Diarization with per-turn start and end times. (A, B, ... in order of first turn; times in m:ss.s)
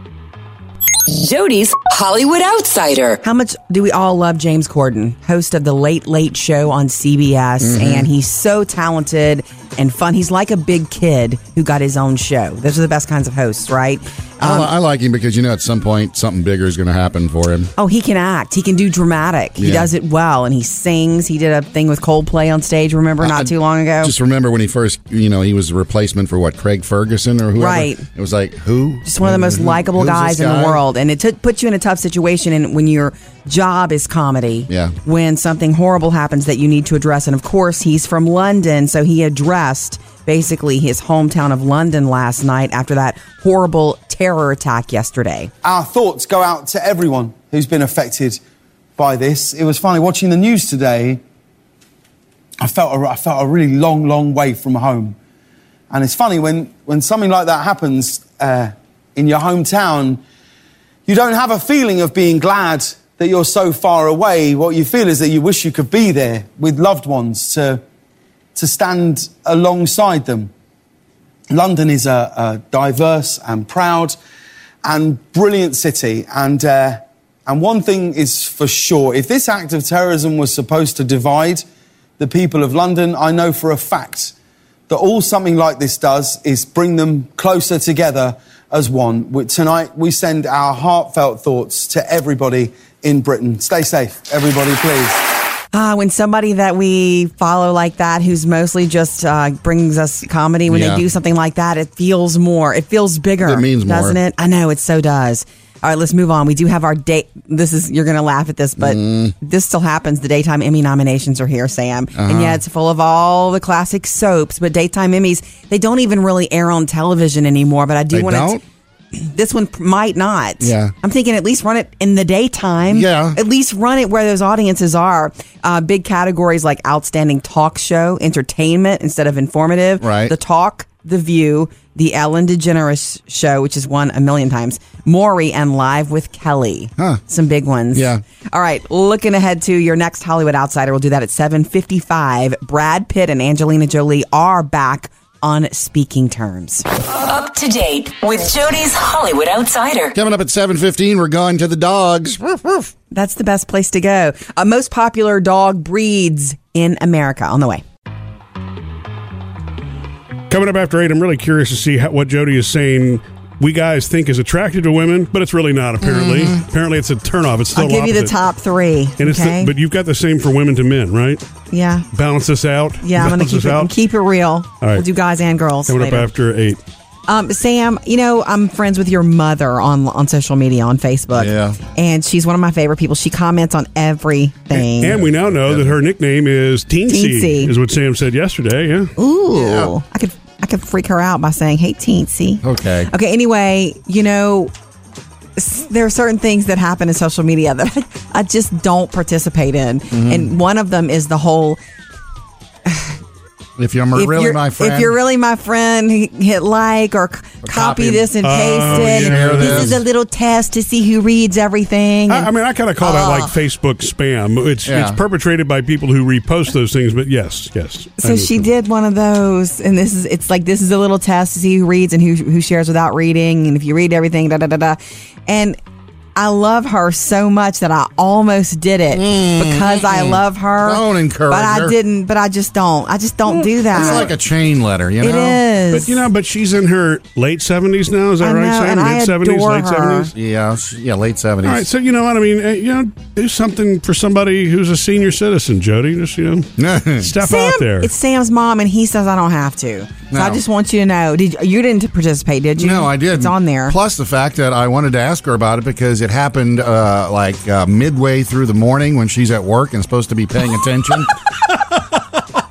0:01.1-0:03.2 A
0:03.2-0:14.7 B
0:07.6-0:08.1 C
0:14.4-0:17.7 C
0:17.8-0:24.1 B
0:19.6-0:19.9 C
0:23.2-0:30.8 C
0:27.6-0:28.0 B
0:29.1-0:45.5 B
0:34.7-0:35.0 C
0:45.6-0:48.4 D
0:49.0-0:51.2 D
0:52.6-0:55.2 D
0:55.9-1:00.2 D
1:01.1-1:07.8 D
1:08.6-1:10.5 D
1:11.5-1:14.2 D
1:14.8-1:21.6 D
1:22.2-1:24.3 D
1:24.9-1:35.3 D
1:35.7-1:58.6 B
1:40.7-1:41.0 C
1:43.4-1:44.2 C
1:48.8-1:49.3 C
1:52.2-1:52.6 C
1:58.1-1:58.6 C
1:59.1-2:26.9 B
2:00.6-2:00.9 C
2:02.9-2:03.4 C
2:10.0-2:10.4 C
2:17.9-2:18.2 C
2:27.1-2:30.2 A
2:30.1-2:32.9 C
2:33.1-2:37.8 B
2:40.5-2:48.4 E
2:46.0-2:46.6 C
2:47.7-2:49.7 B
2:49.2-2:51.4 E
2:51.7-2:52.1 B
2:52.1-2:53.9 E
2:53.0-2:56.3 B
2:54.8-2:55.1 E
2:55.9-2:56.8 E
2:57.3-3:05.2 B
3:01.3-3:01.8 C
3:04.7-3:09.1 E
3:05.0-3:06.0 C
3:07.1-3:07.7 B
3:09.2-3:14.7 B
3:09.5-3:09.9 C
3:12.6-3:13.1 C
3:15.6-3:21.8 B
3:20.1-3:20.5 C
3:23.8-3:25.2 C
3:24.2-3:33.5 B
3:27.6-3:30.0 C
3:28.4-3:30.0 E
3:32.3-3:38.7 E
3:34.9-3:35.2 C
3:38.2-3:45.8 B
3:46.4-3:54.3 B
3:49.1-3:52.0 C
3:53.9-3:55.6 C
3:55.2-3:56.2 B
3:55.9-4:00.3 E
3:58.4-4:00.3 B
4:00.3-4:01.9 C
4:01.6-4:08.1 E
4:06.8-4:07.3 C
4:07.4-4:14.0 B
4:10.3-4:10.6 C
4:12.8-4:21.3 C